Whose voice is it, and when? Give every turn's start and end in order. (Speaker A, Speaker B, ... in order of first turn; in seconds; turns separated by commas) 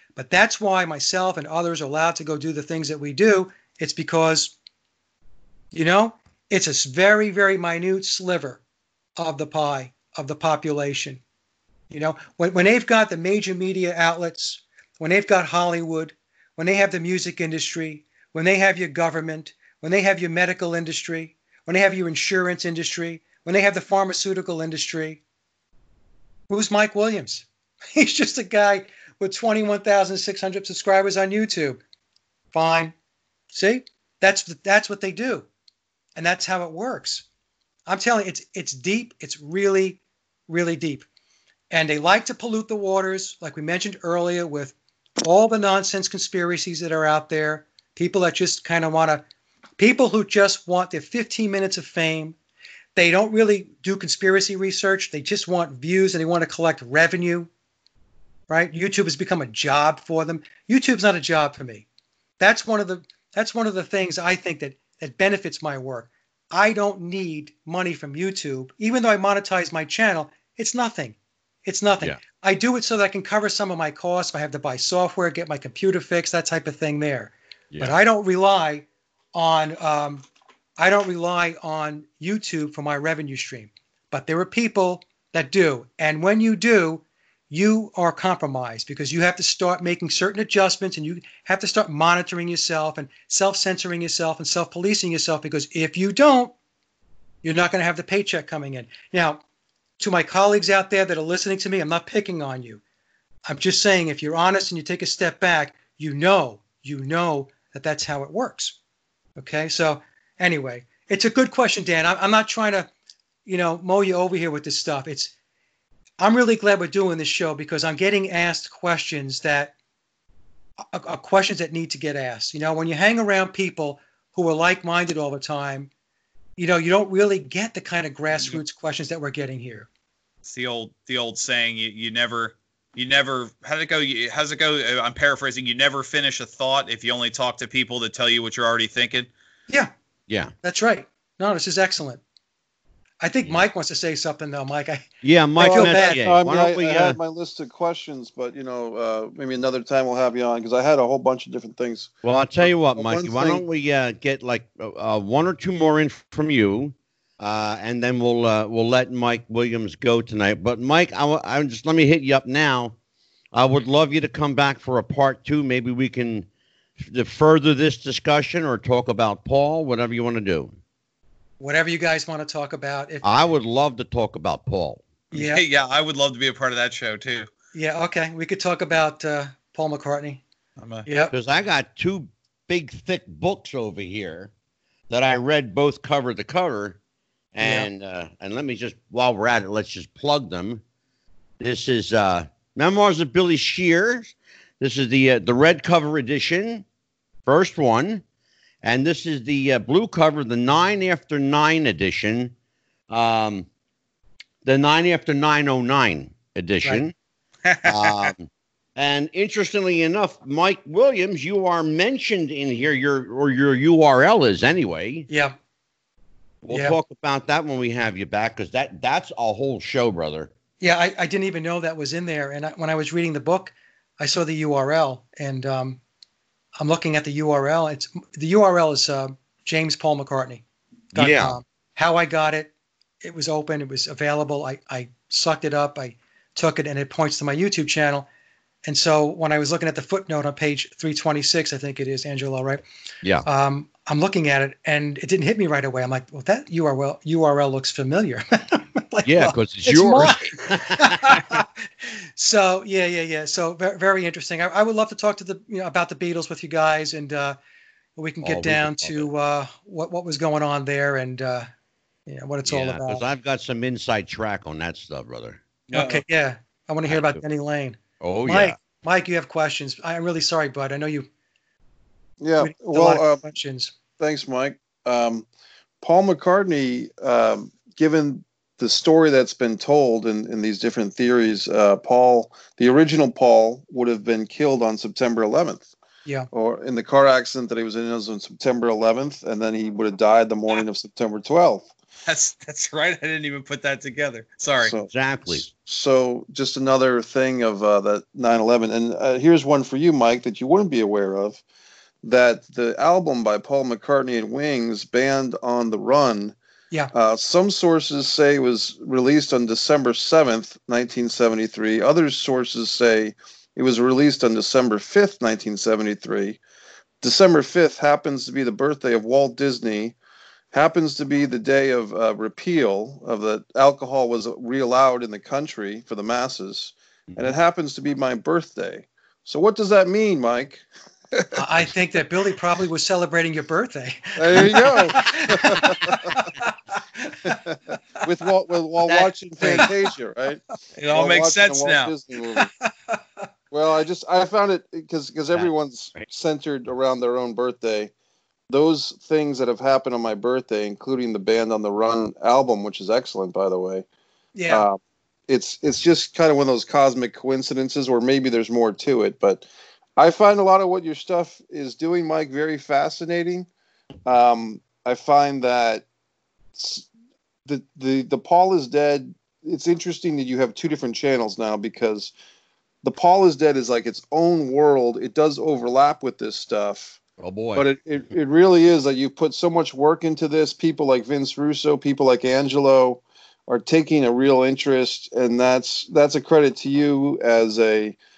Speaker A: 0.1-4.5, Speaker A: 5.7-8.6, Speaker A: 9.2-11.2, Speaker A: 11.9-25.2, Speaker A: 26.5-31.8, Speaker A: 32.5-32.9, Speaker A: 33.5-35.5, Speaker A: 36.1-37.2, Speaker A: 37.9-41.0, Speaker A: 41.7-49.2, Speaker A: 49.8-52.4, Speaker A: 52.9-57.5, Speaker A: 58.5-61.9, Speaker A: 62.4-80.2, Speaker A: 80.8-96.5, Speaker A: 97.4-99.4, Speaker A: 100.0-102.8, Speaker A: 103.5-108.8, Speaker A: 109.3-112.9, Speaker A: 113.4-115.3, Speaker A: 116.2-119.7, Speaker A: 120.9-125.9, Speaker A: 126.6-129.9, Speaker B: 130.4-139.3, Speaker A: 140.6-142.2, Speaker A: 143.2-146.2, Speaker C: 145.2-147.2, Speaker D: 145.6-153.6, Speaker C: 152.2-162.9, Speaker C: 163.5-166.5, Speaker C: 167.0-170.7, Speaker A: 171.6-173.3, Speaker C: 173.2-175.0, Speaker A: 175.3-175.6, Speaker B: 175.3-177.5, Speaker A: 177.7-180.4, Speaker B: 180.8-181.1, Speaker A: 181.1-181.3, Speaker C: 181.3-184.5, Speaker C: 185.1-187.0, Speaker C: 187.5-190.8, Speaker A: 187.6-187.9, Speaker C: 191.6-196.8, Speaker C: 197.4-198.2, Speaker C: 198.8-202.5, Speaker C: 203.1-203.7, Speaker C: 204.6-207.1, Speaker B: 207.7-208.3, Speaker C: 207.8-215.3, Speaker A: 215.3-215.6, Speaker C: 216.6-220.5, Speaker A: 216.7-217.0, Speaker A: 220.8-226.0, Speaker A: 226.8-230.6, Speaker C: 231.1-231.6, Speaker A: 231.1-232.7, Speaker A: 233.2-238.3, Speaker A: 238.8-242.8, Speaker A: 243.4-257.6, Speaker C: 249.2-251.4, Speaker A: 258.2-261.7, Speaker C: 258.4-259.3, Speaker A: 262.3-263.2, Speaker C: 262.6-265.6, Speaker B: 265.9-266.2, Speaker A: 265.9-271.3, Speaker C: 267.0-267.4, Speaker C: 268.2-268.8, Speaker D: 272.4-273.4, Speaker A: 272.6-273.9, Speaker D: 274.2-275.4, Speaker D: 276.0-285.8, Speaker D: 286.5-291.9, Speaker B: 292.2-294.9, Speaker D: 294.8-301.6, Speaker C: 295.1-295.6, Speaker D: 302.2-306.5, Speaker D: 307.1-316.6, Speaker D: 317.2-320.1, Speaker D: 320.7-331.5, Speaker A: 331.5-337.5, Speaker D: 334.4-336.4, Speaker D: 337.4-342.7, Speaker A: 339.6-339.9, Speaker B: 340.9-342.1, Speaker A: 342.6-343.2, Speaker D: 343.7-348.1, Speaker C: 345.5-346.3, Speaker D: 348.7-354.0, Speaker A: 354.5-354.9, Speaker D: 354.7-359.6, Speaker D: 360.2-363.7, Speaker D: 364.2-366.0, Speaker D: 366.8-367.1, Speaker D: 367.6-372.3, Speaker D: 373.0-377.2, Speaker C: 377.4-377.9, Speaker D: 377.7-388.2